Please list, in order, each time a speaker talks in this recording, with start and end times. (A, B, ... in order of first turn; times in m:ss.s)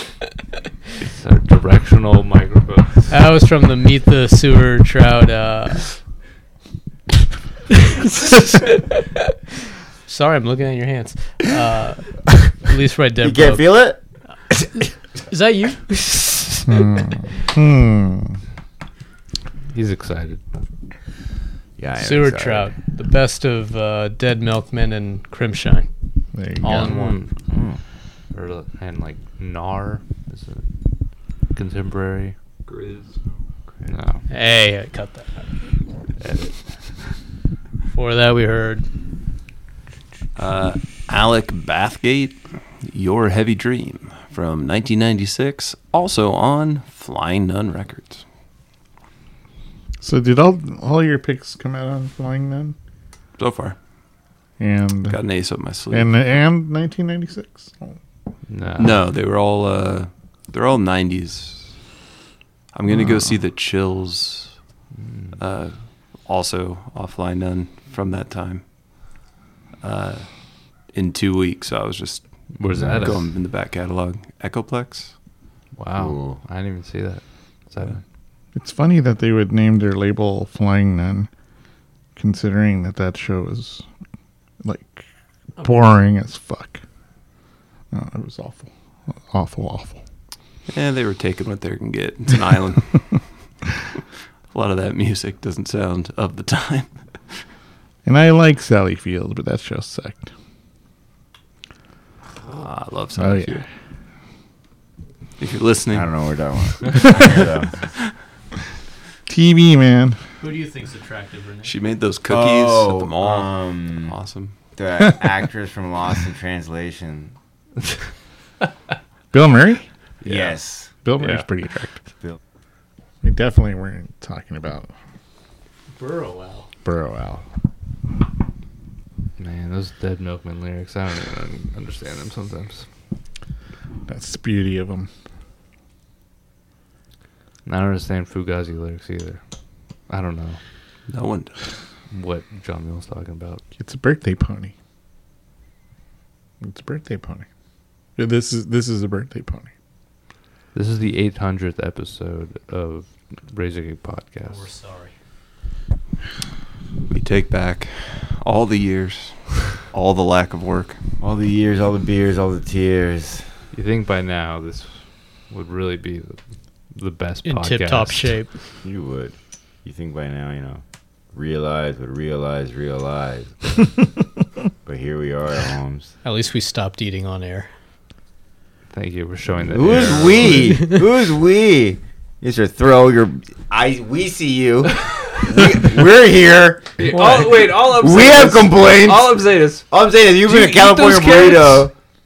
0:01.1-0:03.1 A
0:03.1-0:06.0 B
0:08.0-0:09.0 B
0:10.0-0:17.0 B
0:13.2-0:14.2 C
0:16.7-0:18.4 D
0:19.7-0:20.5 A
0:21.8-0:22.7 C
0:22.0-0:27.3 B
0:26.3-0:27.0 D
0:26.6-0:32.4 A
0:27.4-0:27.8 C
0:32.7-0:33.2 E
0:33.9-0:34.2 A
0:34.3-0:35.9 B
0:36.2-0:36.8 A
0:37.9-0:38.9 B
0:40.4-0:48.2 E
0:50.0-0:52.8 D
0:53.4-0:53.8 E
0:54.6-0:58.0 D
0:55.1-0:56.4 E
0:58.5-0:59.0 A
0:58.8-1:02.0 E
1:02.7-1:04.8 E
1:05.0-1:05.4 A
1:05.4-1:09.2 E
1:09.8-1:15.2 E
1:12.6-1:13.3 A
1:15.7-1:18.0 A
1:16.0-1:16.4 C
1:18.5-1:21.3 D
1:22.2-1:23.8 D
1:24.6-1:26.8 D
1:27.9-1:28.7 D
1:29.3-1:30.0 D
1:30.7-1:33.4 E
1:34.5-1:37.5 E
1:38.0-1:40.3 D
1:42.4-1:43.5 A
1:42.8-1:43.6 E
1:43.2-1:43.7 D
1:45.4-1:46.6 E
1:45.9-1:47.9 C
1:49.3-1:50.2 D
1:50.4-1:51.8 B
1:51.6-1:54.6 E
1:52.3-1:57.4 C
1:59.3-1:59.9 D
2:00.2-2:00.9 C
2:00.2-2:00.6 E
2:01.0-2:02.1 D
2:01.2-2:01.5 A
2:03.2-2:04.9 D
2:05.9-2:06.7 B
2:06.8-2:07.5 D
2:09.4-2:12.9 A
2:14.1-2:15.1 D
2:17.6-2:19.4 A
2:20.0-2:20.6 A
2:21.1-2:21.7 E
2:22.1-2:23.6 A
2:23.8-2:24.7 D
2:26.6-2:27.5 D
2:28.2-2:29.7 D
2:30.7-2:34.7 A
2:34.4-2:35.2 B
2:37.1-2:41.0 E
2:41.2-2:43.6 C
2:43.7-2:48.4 A
2:47.4-2:48.6 B
2:48.8-2:54.1 C
2:54.8-2:56.2 C
2:56.2-2:57.7 B
2:58.9-3:00.7 A
2:59.6-3:07.2 C
3:00.6-3:01.0 B
3:07.0-3:09.9 A
3:07.0-3:07.8 B
3:07.9-3:11.9 C
3:10.4-3:11.9 A